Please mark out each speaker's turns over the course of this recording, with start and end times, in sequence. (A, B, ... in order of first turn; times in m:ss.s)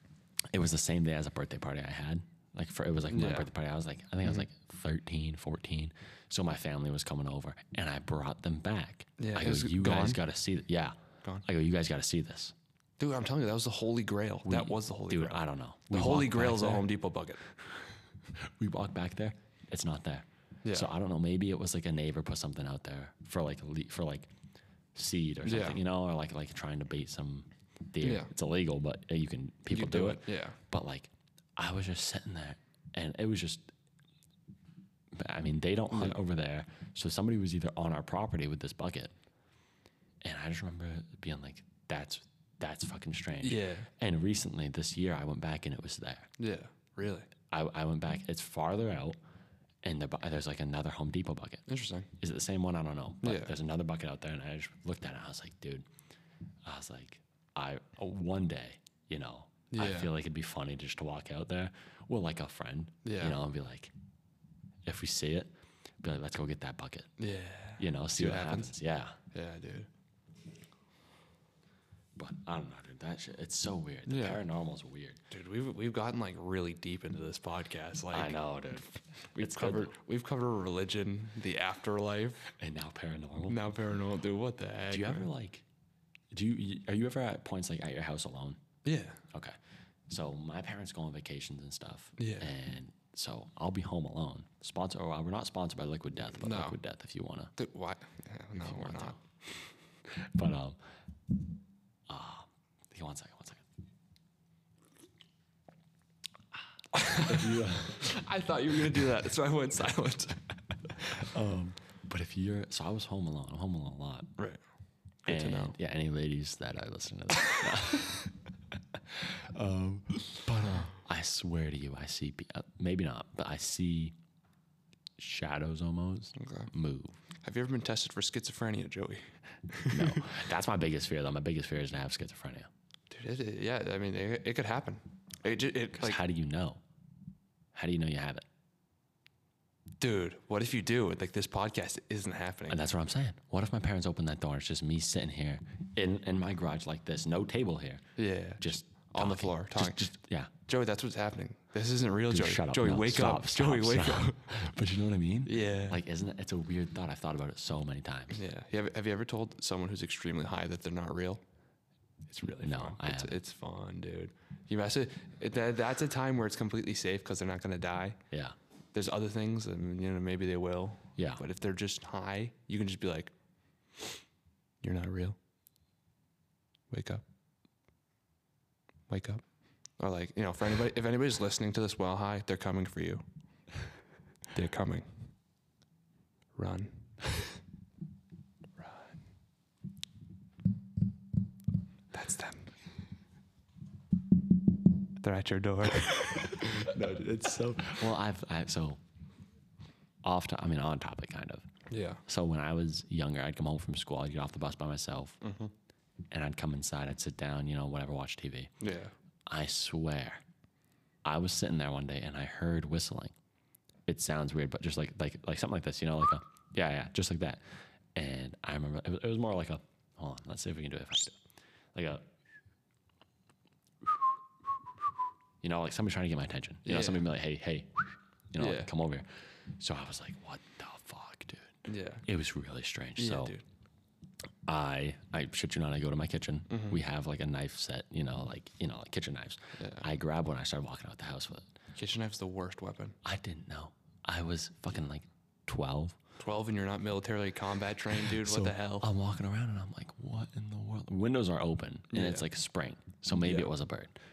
0:00.5-0:12.5 A
0:03.1-0:03.5 B
0:09.2-0:10.2 B
0:13.0-0:17.5 B
0:14.4-0:16.9 A
0:18.3-0:24.3 A
0:20.6-0:20.9 B
0:24.9-0:33.6 A
0:25.4-0:25.8 B
0:28.0-0:28.3 B
0:29.7-0:30.6 B
0:35.1-0:39.1 A
0:35.9-0:36.2 B
0:40.2-0:46.3 A
0:43.4-0:43.9 B
0:46.4-0:47.3 B
0:47.5-0:49.2 A
0:49.8-0:51.6 A
0:51.7-0:52.1 B
0:52.2-0:55.8 A
0:53.2-0:53.5 B
0:56.6-1:03.9 A
0:59.7-1:00.1 B
1:03.0-1:03.4 B
1:04.8-1:07.1 A
1:07.2-1:08.7 B
1:07.8-1:09.2 A
1:09.3-1:09.9 B
1:12.2-1:15.2 A
1:14.1-1:14.4 B
1:15.3-1:22.5 B
1:18.1-1:19.9 A
1:22.5-1:23.6 A
1:23.5-1:25.3 B
1:24.9-1:25.6 A
1:26.3-1:28.6 A
1:28.8-1:29.2 B
1:29.3-1:29.6 A
1:30.1-1:37.5 A
1:32.2-1:32.5 B
1:36.3-1:36.8 B
1:37.6-1:39.2 B
1:38.6-1:39.2 A
1:40.0-1:40.8 A
1:42.1-1:43.6 A
1:46.9-1:50.5 B
1:47.1-1:48.1 A
1:51.0-1:54.3 A
1:55.2-1:55.7 B
1:55.3-1:58.3 A
1:58.9-2:04.1 A
2:05.2-2:07.2 A
2:06.4-2:06.7 B
2:07.4-2:10.4 B
2:09.9-2:12.7 A
2:13.1-2:16.2 B
2:15.9-2:16.8 A
2:17.7-2:18.4 A
2:20.0-2:22.8 B
2:22.7-2:28.1 A
2:28.2-2:30.1 B
2:28.6-2:30.5 A
2:30.7-2:34.5 B
2:32.3-2:38.4 A
2:35.4-2:36.0 B
2:38.3-2:41.4 B
2:42.3-2:48.2 B
2:42.6-2:43.4 A
2:48.3-2:48.6 A
2:48.9-2:53.3 B
2:51.2-2:51.4 A
2:54.8-2:55.4 B
2:56.9-2:57.2 B
2:59.1-2:59.4 B
3:00.0-3:03.2 B
3:04.5-3:05.1 B
3:06.6-3:07.1 B
3:08.8-3:09.1 B
3:12.1-3:12.7 B
3:15.2-3:16.9 B
3:16.3-3:19.0 A
3:20.2-3:21.6 A
3:21.9-3:22.2 B
3:22.3-3:25.4 A
3:25.4-3:25.7 B
3:26.3-3:28.7 A
3:28.8-3:29.1 B
3:29.5-3:30.4 A
3:31.2-3:33.3 A
3:34.1-3:37.6 A
3:38.1-3:41.4 A
3:41.9-3:42.3 A
3:45.6-3:53.5 A
3:46.8-3:47.2 B
3:48.6-3:48.9 B
3:51.9-3:52.2 B
3:53.2-3:53.6 B
3:54.6-4:01.7 A
3:56.7-3:57.0 B
3:59.8-4:00.0 B
4:02.0-4:03.2 B
4:03.2-4:06.2 A
4:06.4-4:09.1 B
4:08.1-4:14.1 A
4:12.1-4:12.5 B
4:13.3-4:13.7 B